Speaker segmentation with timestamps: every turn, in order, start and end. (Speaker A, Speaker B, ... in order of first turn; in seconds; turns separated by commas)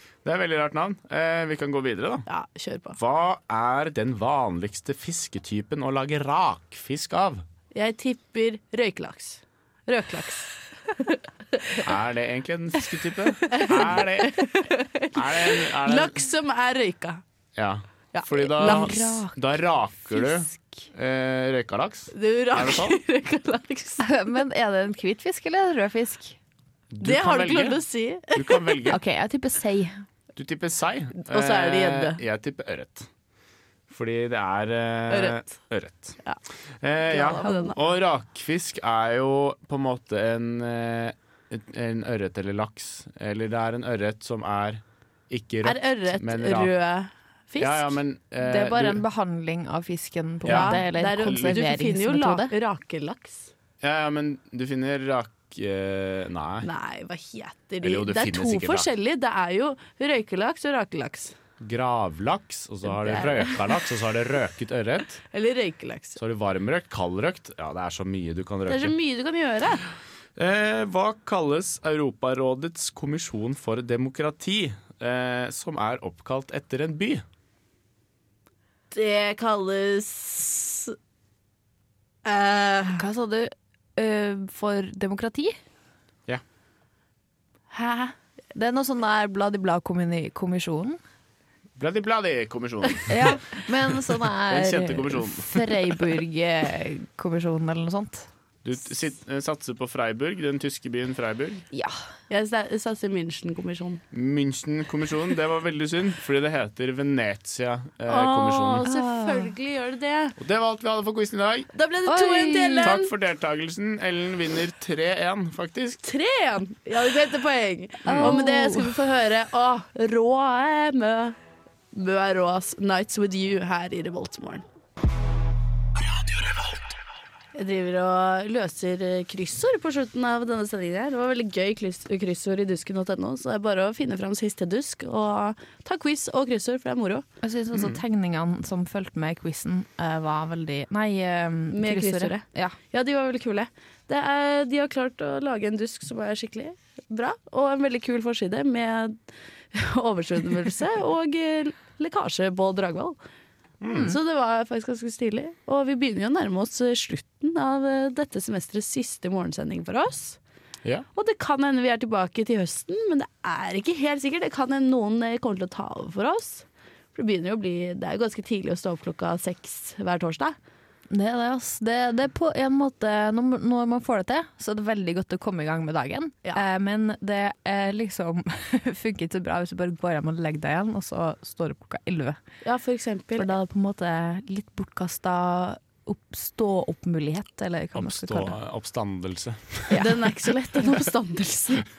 Speaker A: 0.2-2.2, Speaker B: 2.3-3.0, Speaker A: 3.0-7.4, Speaker B: 7.7-11.8, Speaker A: 11.8-14.5, Speaker B: 13.5-17.2, Speaker A: 15.1-16.1, Speaker A: 17.6-23.0, Speaker B: 18.1-19.2, Speaker C: 18.6-19.4, Speaker B: 22.1-24.1, Speaker C: 24.0-26.4, Speaker A: 26.9-27.8, Speaker B: 27.0-28.9, Speaker A: 28.3-29.0, Speaker C: 28.9-30.0, Speaker A: 30.4-33.1, Speaker B: 31.3-32.2, Speaker A: 33.9-36.2, Speaker B: 35.1-35.5, Speaker A: 36.8-46.7, Speaker B: 37.1-37.8, Speaker B: 45.6-47.9, Speaker A: 47.6-49.0, Speaker C: 48.4-52.5, Speaker A: 50.4-51.4, Speaker B: 50.4-53.5, Speaker A: 53.8-56.7, Speaker B: 56.6-61.3, Speaker A: 57.8-58.9, Speaker A: 61.6-65.2, Speaker B: 62.9-63.6, Speaker B: 65.3-66.2, Speaker A: 66.2-68.9, Speaker B: 68.7-69.8, Speaker A: 70.3-77.2, Speaker B: 78.9-81.0, Speaker B: 82.2-83.0, Speaker C: 82.9-85.5, Speaker B: 87.7-88.1, Speaker C: 88.5-91.0, Speaker A: 91.8-93.4, Speaker C: 93.1-98.3, Speaker A: 94.5-96.0, Speaker A: 98.6-101.6, Speaker C: 101.7-102.0, Speaker B: 102.3-104.0, Speaker A: 104.1-108.9, Speaker B: 108.1-110.3, Speaker C: 108.8-109.5, Speaker A: 110.4-111.7, Speaker B: 111.7-113.1, Speaker C: 112.0-112.9, Speaker A: 112.8-116.0, Speaker B: 116.0-121.3, Speaker C: 118.0-119.0, Speaker A: 118.1-118.4, Speaker B: 121.9-124.6, Speaker B: 127.5-137.2, Speaker C: 137.4-142.8, Speaker A: 137.7-138.0, Speaker B: 141.7-149.2, Speaker B: 149.7-153.2, Speaker A: 153.8-154.2, Speaker B: 153.9-160.4, Speaker B: 161.1-170.6, Speaker C: 171.1-182.4, Speaker B: 182.6-183.5, Speaker C: 183.4-188.6, Speaker A: 187.9-190.2, Speaker B: 189.9-191.9